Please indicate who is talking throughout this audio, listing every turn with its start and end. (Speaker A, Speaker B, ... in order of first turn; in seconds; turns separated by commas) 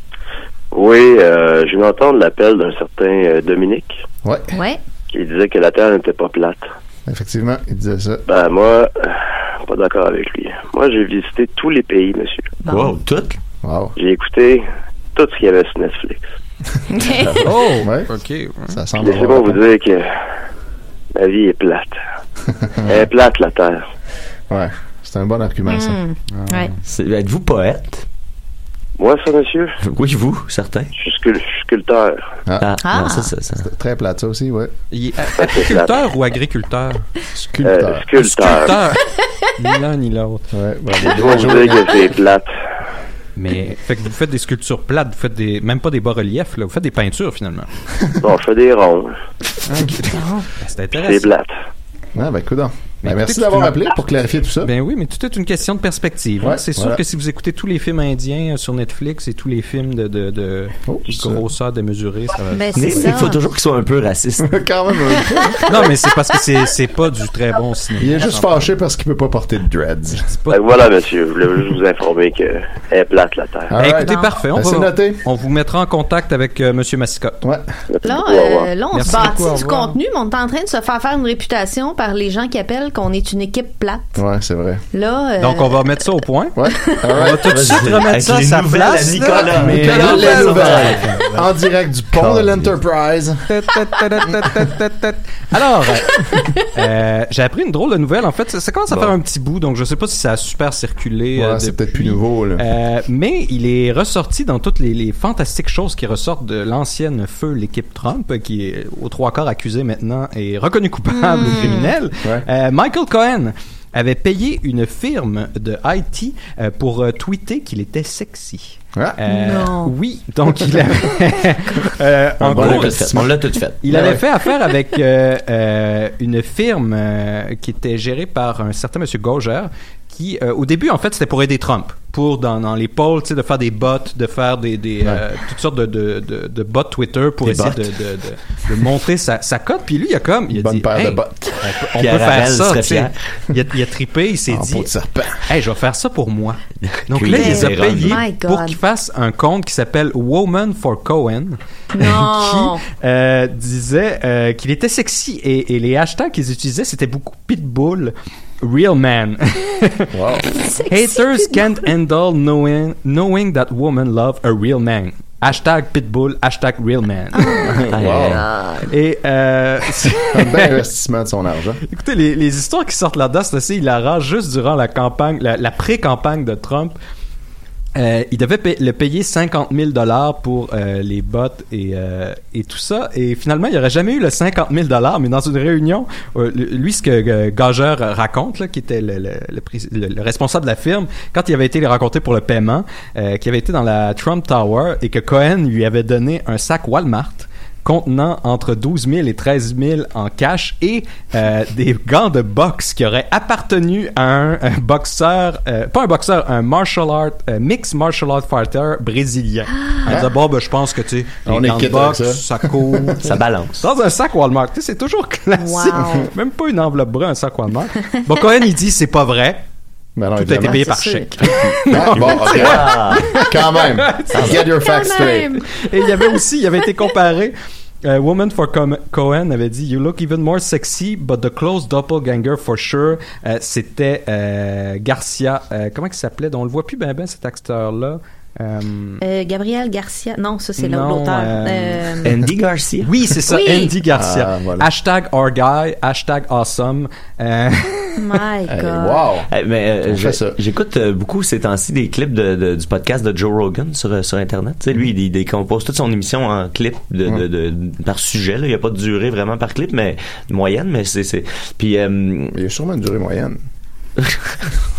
Speaker A: 0.7-4.0, Speaker B: 4.2-4.5, Speaker C: 4.5-4.8, Speaker A: 5.1-6.7, Speaker B: 7.1-8.2, Speaker A: 8.3-12.6, Speaker C: 12.6-12.9, Speaker D: 12.7-13.4, Speaker B: 13.6-13.9, Speaker A: 14.0-16.2, Speaker C: 16.9-17.5, Speaker B: 17.0-18.1, Speaker E: 17.4-18.8, Speaker B: 18.7-19.6, Speaker A: 19.0-20.1, Speaker A: 21.1-22.0, Speaker B: 22.6-23.0, Speaker A: 22.8-23.8, Speaker B: 24.5-26.0, Speaker C: 25.7-26.7, Speaker E: 26.4-26.7, Speaker D: 26.9-28.1, Speaker A: 29.0-29.8, Speaker D: 29.8-30.9, Speaker A: 31.0-32.2, Speaker D: 32.6-33.7, Speaker C: 32.8-33.3, Speaker B: 33.6-34.7, Speaker E: 34.9-37.1, Speaker A: 35.4-36.0, Speaker B: 37.4-38.1, Speaker A: 37.6-38.8, Speaker E: 38.2-39.0, Speaker E: 39.6-40.5, Speaker B: 40.5-42.0, Speaker A: 41.0-42.5, Speaker E: 43.4-47.7, Speaker A: 48.2-49.1, Speaker B: 49.7-50.1, Speaker E: 49.7-51.3, Speaker A: 50.9-51.5, Speaker B: 52.1-54.7, Speaker E: 53.0-53.9, Speaker E: 54.6-63.2, Speaker B: 56.4-57.0, Speaker B: 60.9-61.5, Speaker C: 62.5-63.4, Speaker D: 62.8-64.5, Speaker B: 64.4-65.9, Speaker E: 65.7-68.7, Speaker B: 68.0-70.2, Speaker E: 70.2-70.7, Speaker A: 70.5-73.7, Speaker B: 73.7-75.2, Speaker E: 73.8-77.4, Speaker C: 74.0-74.3, Speaker A: 77.9-78.7, Speaker C: 78.0-84.2, Speaker E: 78.9-80.0, Speaker B: 84.2-84.8, Speaker C: 84.9-85.8, Speaker E: 85.4-91.5, Speaker B: 86.6-87.6, Speaker C: 86.7-87.0, Speaker D: 87.4-91.1, Speaker B: 89.3-93.4, Speaker D: 92.2-92.7, Speaker E: 93.5-123.2, Speaker C: 96.2-96.7, Speaker B: 101.3-102.7, Speaker C: 111.1-111.9, Speaker C: 119.3-119.9, Speaker B: 122.4-124.2, Speaker D: 122.4-123.8, Speaker E: 123.8-144.9, Speaker D: 137.5-137.8, Speaker B: 140.5-141.6, Speaker D: 142.0-143.1, Speaker B: 144.5-145.5, Speaker E: 145.4-160.1, Speaker D: 146.8-148.2, Speaker C: 147.3-148.8, Speaker C: 151.9-152.8, Speaker B: 160.1-160.5, Speaker C: 160.5-161.9, Speaker E: 160.9-167.8, Speaker C: 167.3-167.8, Speaker B: 167.6-168.4, Speaker D: 167.9-168.5, Speaker C: 168.3-168.9, Speaker E: 168.9-170.8, Speaker B: 170.3-171.8, Speaker E: 171.9-177.0, Speaker E: 178.0-219.6, Speaker B: 210.1-210.3, Speaker B: 211.5-213.2, Speaker D: 213.2-213.8, Speaker C: 215.6-216.3, Speaker B: 220.2-220.9, Speaker E: 220.4-224.6, Speaker C: 220.6-221.9, Speaker B: 221.9-225.6, Speaker D: 222.5-223.3, Speaker D: 224.3-224.6, Speaker C: 224.7-226.4, Speaker E: 225.8-239.2, Speaker C: 239.2-242.3, Speaker E: 240.8-242.3, Speaker D: 242.2-243.1, Speaker E: 243.0-248.2, Speaker C: 243.5-243.9, Speaker B: 244.1-244.9, Speaker C: 248.2-249.3, Speaker B: 248.7-249.5, Speaker D: 249.5-262.6, Speaker B: 250.0-250.6, Speaker B: 262.5-263.6, Speaker D: 264.2-264.6